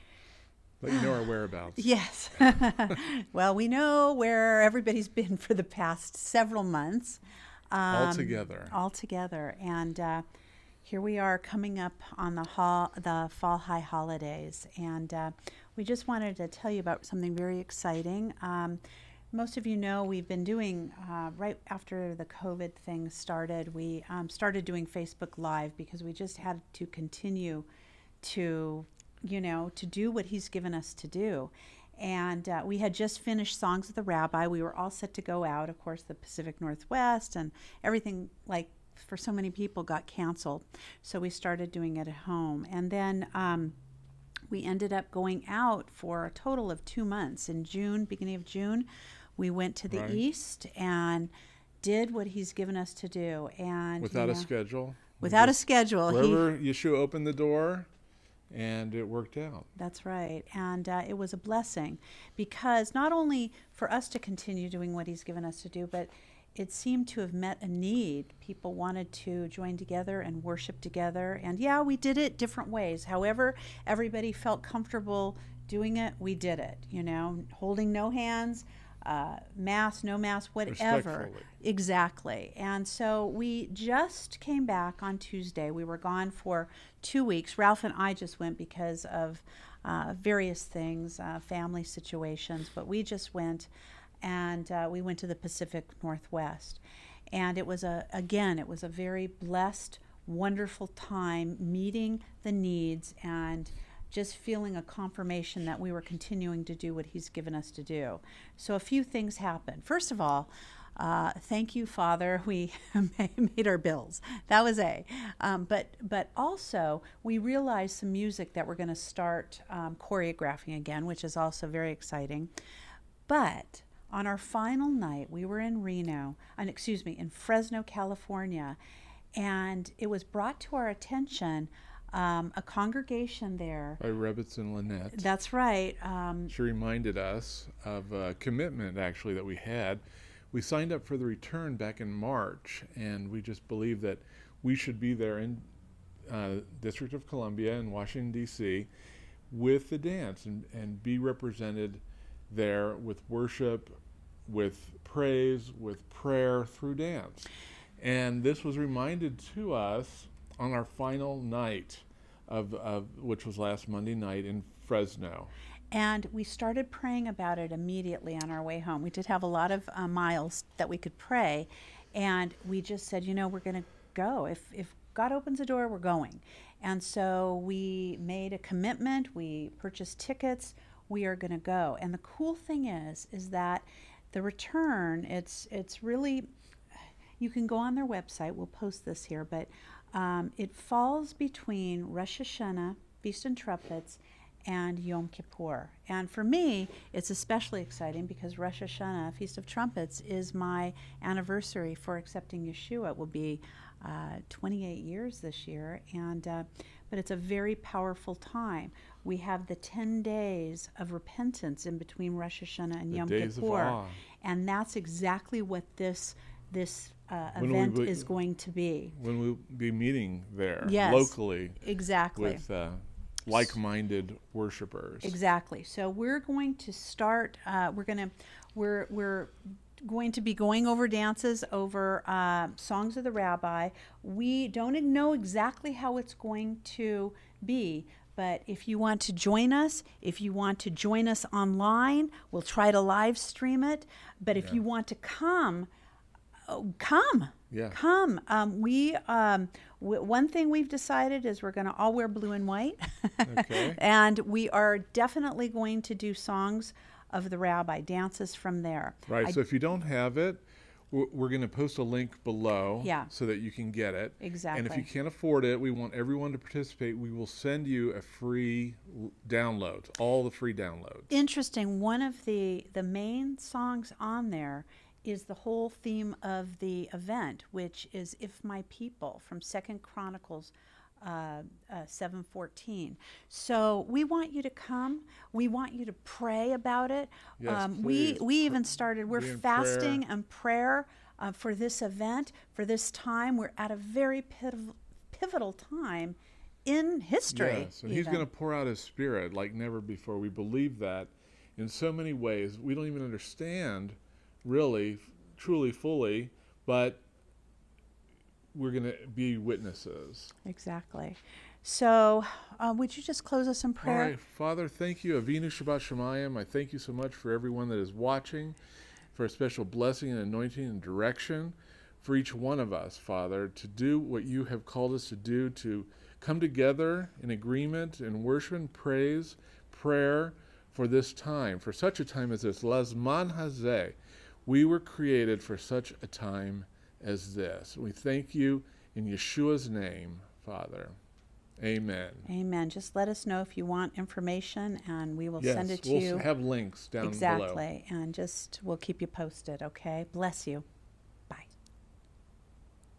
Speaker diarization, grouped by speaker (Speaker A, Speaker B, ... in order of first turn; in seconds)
Speaker A: 0.8-1.9, 7.9-8.7, 49.9-50.2, 54.0-57.9, 58.5-59.7, 80.7-81.5, 134.0-135.3, 136.5-145.7, 146.3-148.9, 149.5-165.5, 213.1-214.2, 217.6-218.3, 219.1-221.8, 222.3-225.4, 244.5-244.8, 247.7-248.0, 253.4-254.0, 259.3-271.3, 287.6-290.2, 297.5-307.2, 308.7-310.5, 314.0-318.8, 319.3-334.1, 334.6-341.1, 341.8-342.5, 345.6-347.8
Speaker B: 1.8-7.2, 7.7-10.2, 10.8-18.8, 19.3-27.7, 28.2-43.8, 44.5-54.5, 55.2-56.4, 59.8-93.7, 94.2-122.5, 123.3-128.8, 129.3-134.0, 135.1-136.5, 165.9-186.5, 187.4-219.2, 220.8-222.6, 225.2-245.9, 246.7-259.6, 263.0-263.3, 264.4-265.1, 271.3-298.4, 310.6-314.3, 342.5-346.4, 347.2-350.8